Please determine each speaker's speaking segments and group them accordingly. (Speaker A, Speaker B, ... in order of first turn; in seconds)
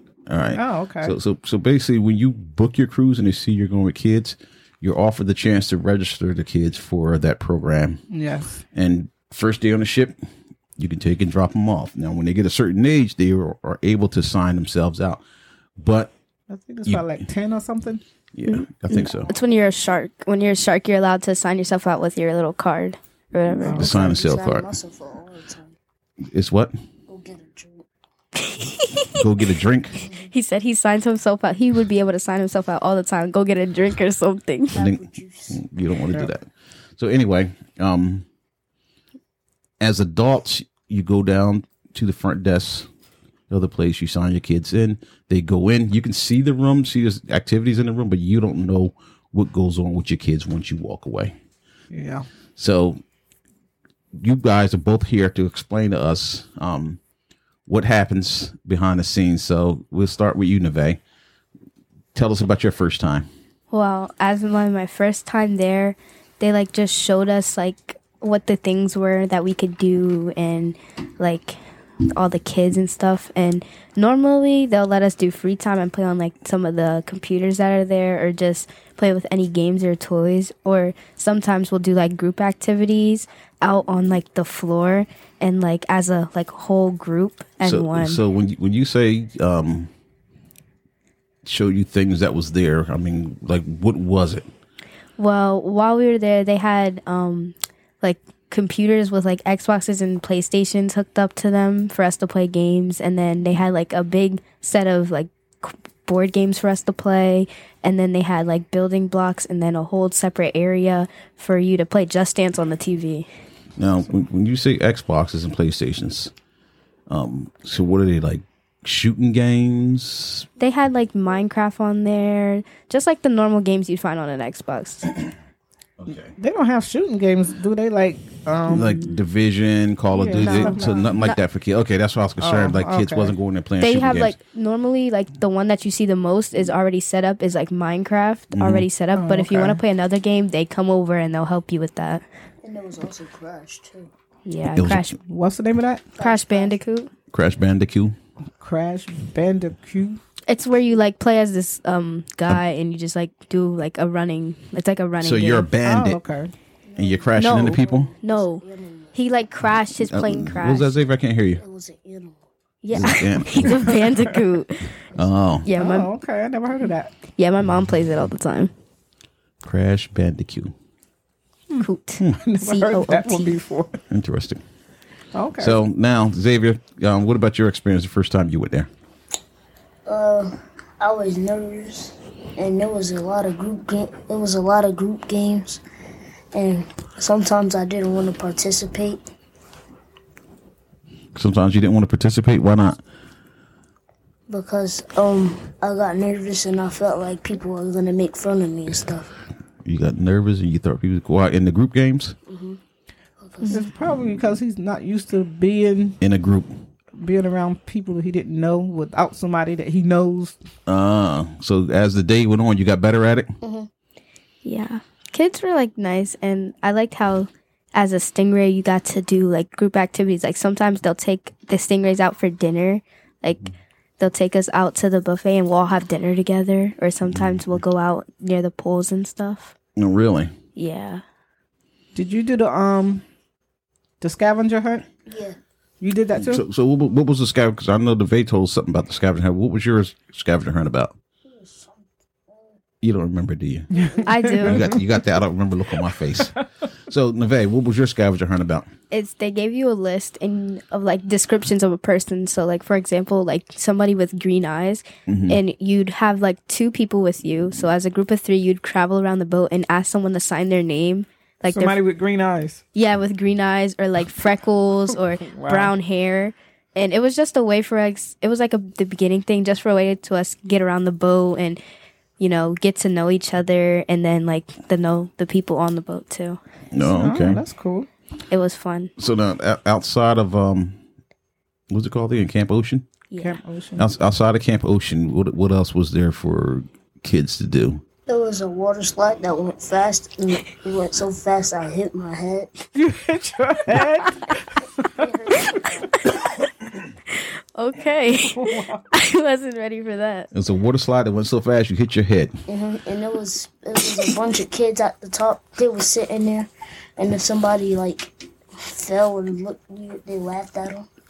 Speaker A: 0.3-8.0, 8.7-10.2, 10.8-15.2, 15.8-16.1, 16.8-17.2, 18.3-19.3, 23.7-24.7, 26.3-26.7, 29.1-30.0, 34.7-38.2, 39.8-42.9, 43.5-51.3, 52.5-53.0, 54.2-57.0, 57.6-61.0, 62.1-63.3, 87.6-89.9, 91.4-94.5, 113.8-116.3, 117.1-120.5, 126.0-126.3, 128.7-134.3, 138.5-138.8, 144.7-145.1, 147.3-148.1, 155.2-156.2, 157.0-158.1, 160.0-161.6, 162.9-163.8, 165.2-165.7, 169.6-170.7, 174.1-174.6, 175.6-178.9, 191.3-193.0, 199.8-202.3, 206.2-206.7, 210.8-213.5, 227.2-227.7, 230.0-230.5, 236.3-241.1, 243.0-243.9, 244.6-248.9, 255.3-255.6, 276.9-277.6, 279.2-281.0, 281.9-283.0, 284.0-288.0, 300.5-302.6
Speaker B: 0.5-1.1, 8.1-8.6, 16.5-18.0, 23.6-23.9, 51.9-52.2, 126.3-129.0, 130.1-131.1, 132.4-133.3, 139.1-139.8, 145.2-146.1, 148.6-150.2, 155.8-156.5, 165.8-167.1, 172.4-174.0, 175.3-175.8, 203.7-206.2, 207.2-210.6, 232.1-233.2, 234.2-235.0, 236.0-236.6, 243.9-244.9, 261.7-262.8, 265.4-265.9, 277.0-278.1, 283.4-284.1, 292.9-295.2, 298.4-299.0
Speaker C: 18.4-23.9, 28.5-29.1, 30.0-34.8, 63.7-71.6, 72.1-88.2, 95.2-113.3, 120.6-125.1, 130.4-131.4, 133.8-142.2, 144.4-145.2, 146.2-147.1, 150.5-155.7, 157.4-160.9, 162.8-164.9, 165.6-166.1, 167.3-168.7, 171.8-173.6, 214.6-229.7, 230.8-231.2, 244.2-244.8, 249.1-262.0, 262.9-271.8, 272.4-276.6, 278.5-279.1, 283.3-283.6, 297.3-300.5
Speaker D: 23.7-25.8, 27.1-27.8, 34.7-35.6, 142.6-144.1, 146.2-146.8, 156.8-159.2, 161.6-162.4, 180.1-185.8, 186.5-189.2, 194.5-199.3, 202.5-202.8, 203.4-203.8, 213.6-213.9, 235.3-235.6, 241.4-242.8, 243.9-244.5, 288.2-292.7, 295.0-296.2, 302.7-311.1